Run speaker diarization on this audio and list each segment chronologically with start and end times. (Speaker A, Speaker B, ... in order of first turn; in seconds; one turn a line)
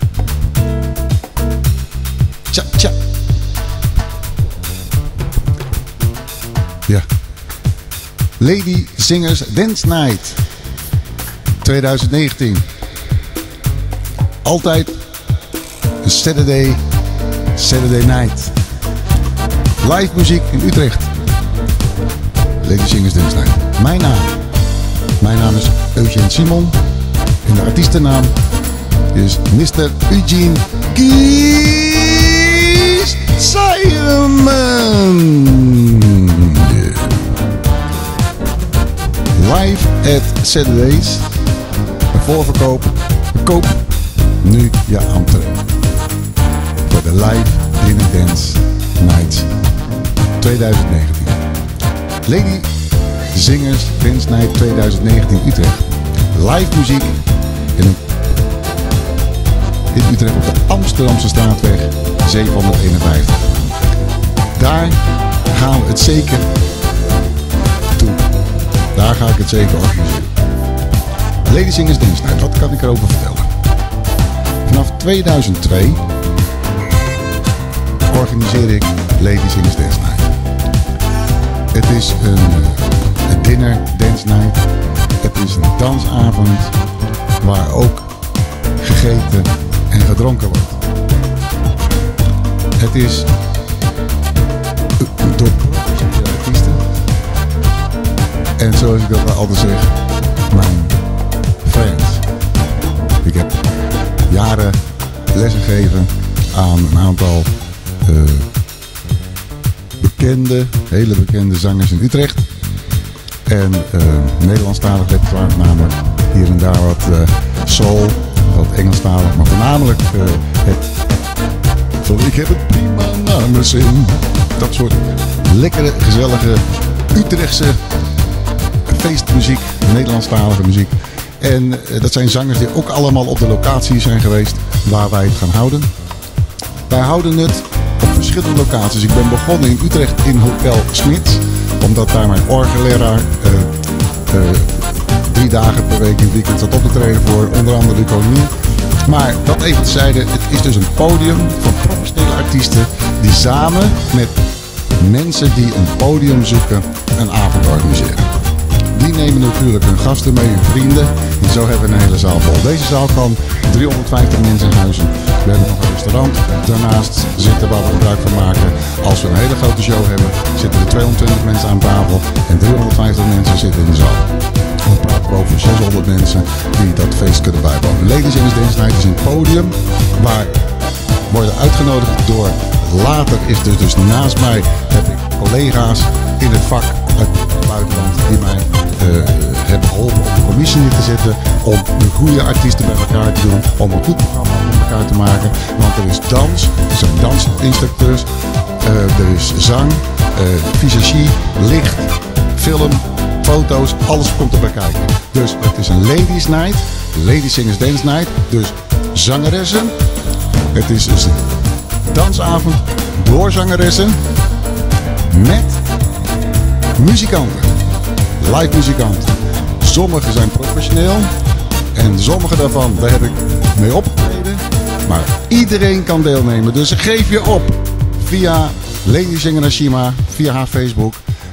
Speaker A: 2.5-3.0
Speaker A: 8.4-10.4
Speaker A: 11.6-12.7
Speaker A: 14.4-15.0
Speaker A: 16.0-16.8
Speaker A: 17.5-18.6
Speaker A: 19.8-21.1
Speaker A: 22.6-24.4
Speaker A: 25.2-26.8
Speaker A: 27.4-28.4
Speaker A: 29.1-37.2
Speaker A: 39.3-41.3
Speaker A: 42.1-43.8
Speaker A: 44.4-45.6
Speaker A: 46.9-49.5
Speaker A: 50.4-51.4
Speaker A: 52.2-52.7
Speaker A: 53.3-57.2
Speaker A: 57.7-58.0
Speaker A: 59.9-63.7
Speaker A: 64.5-66.6
Speaker A: 67.9-68.3
Speaker A: 68.9-70.3
Speaker A: 71.5-73.5
Speaker A: 74.6-76.0
Speaker A: 78.1-80.3
Speaker A: 81.7-84.7
Speaker A: 85.2-86.7
Speaker A: 87.4-88.1
Speaker A: 88.8-90.8
Speaker A: 92.8-93.3
Speaker A: 95.0-96.8
Speaker A: 98.6-101.0
Speaker A: 101.6-102.2
Speaker A: 103.2-103.6
Speaker A: 104.3-108.5
Speaker A: 110.0-112.5
Speaker A: 113.5-120.8
Speaker A: 122.0-127.8
Speaker A: 128.8-135.9
Speaker A: 136.9-143.7
Speaker A: 144.3-148.5
Speaker A: 149.0-154.4
Speaker A: 155.0-158.3
Speaker A: 158.9-174.3
Speaker A: 174.8-180.6
Speaker A: 181.3-209.9
Speaker A: 210.7-211.4
Speaker A: 212.1-214.2
Speaker A: 215.3-215.8
Speaker A: 216.9-217.8
Speaker A: 218.4-221.3
Speaker A: 221.9-231.2